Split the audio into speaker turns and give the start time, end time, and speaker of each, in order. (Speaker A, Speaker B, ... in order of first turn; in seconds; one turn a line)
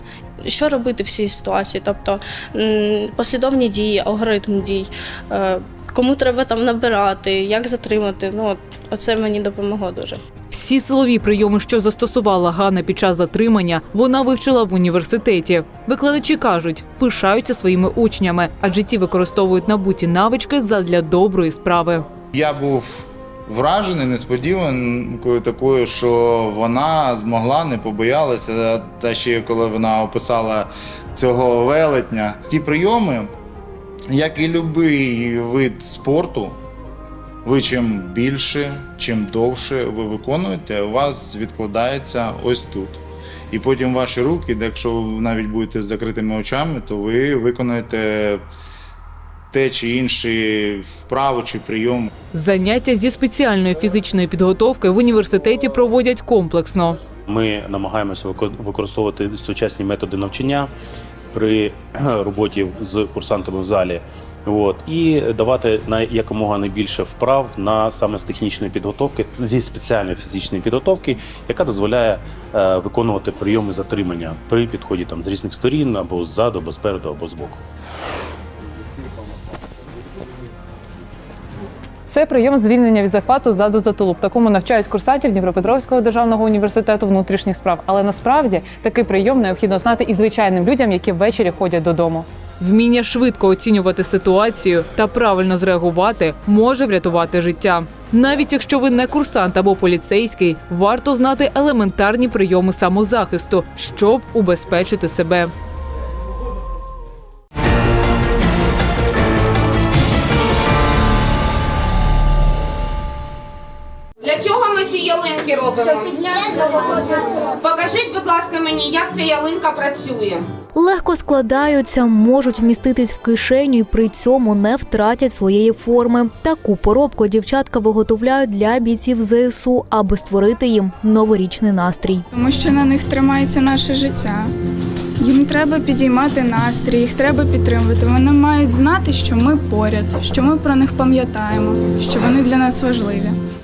Speaker A: 0.4-10.2
Speaker B: 10.5-22.1
Speaker C: 22.3-33.3
Speaker C: 34.1-36.6
Speaker C: 37.4-43.0
Speaker C: 43.5-48.4
Speaker C: 49.5-52.1
Speaker B: 52.3-57.0
Speaker D: 57.3-60.7
Speaker D: 61.3-77.6
Speaker B: 82.1-105.5
Speaker E: 114.2-120.5
Speaker F: 120.7-132.2
Speaker G: 132.3-134.5
Speaker G: 135.2-143.4